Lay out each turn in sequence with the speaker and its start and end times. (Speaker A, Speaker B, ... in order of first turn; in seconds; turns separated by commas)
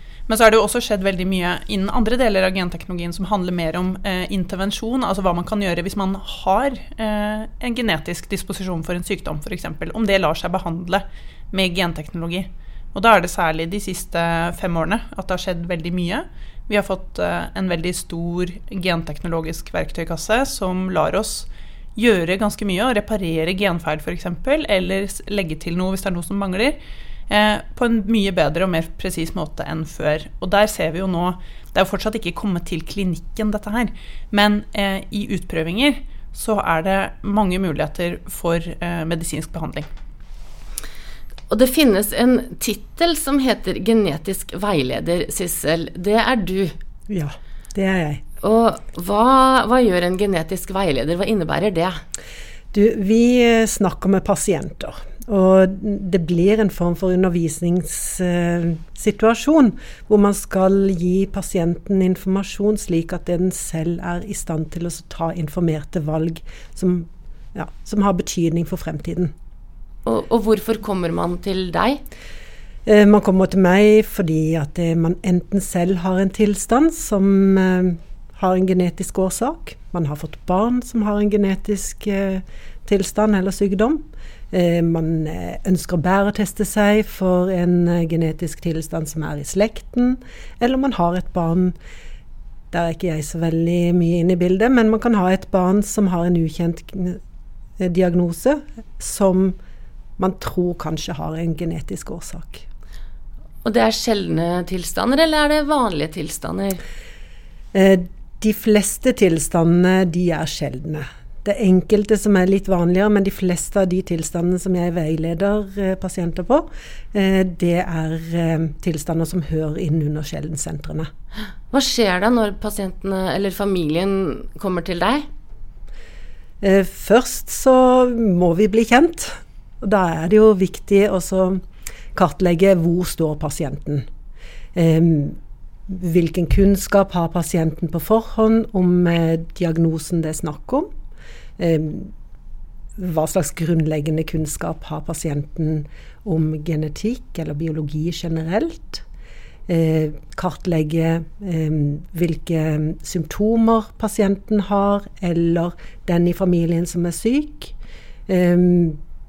Speaker A: 0.3-26.8, Speaker A: 27.3-39.9, Speaker B: 41.5-46.8, Speaker C: 47.1-48.2, Speaker B: 48.4-52.0, Speaker C: 52.7-69.3, Speaker B: 70.0-72.0, Speaker C: 72.9-91.8, Speaker C: 92.7-97.2, Speaker C: 97.8-99.6, Speaker C: 100.2-102.7, Speaker B: 103.6-106.8, Speaker C: 107.7-121.1, Speaker B: 121.7-125.3, Speaker C: 126.6-131.6, Speaker C: 132.1-134.1, Speaker C: 134.7-140.9, Speaker C: 141.6-142.1, Speaker C: 143.0-149.0, Speaker C: 149.7-157.7, Speaker C: 158.3-159.0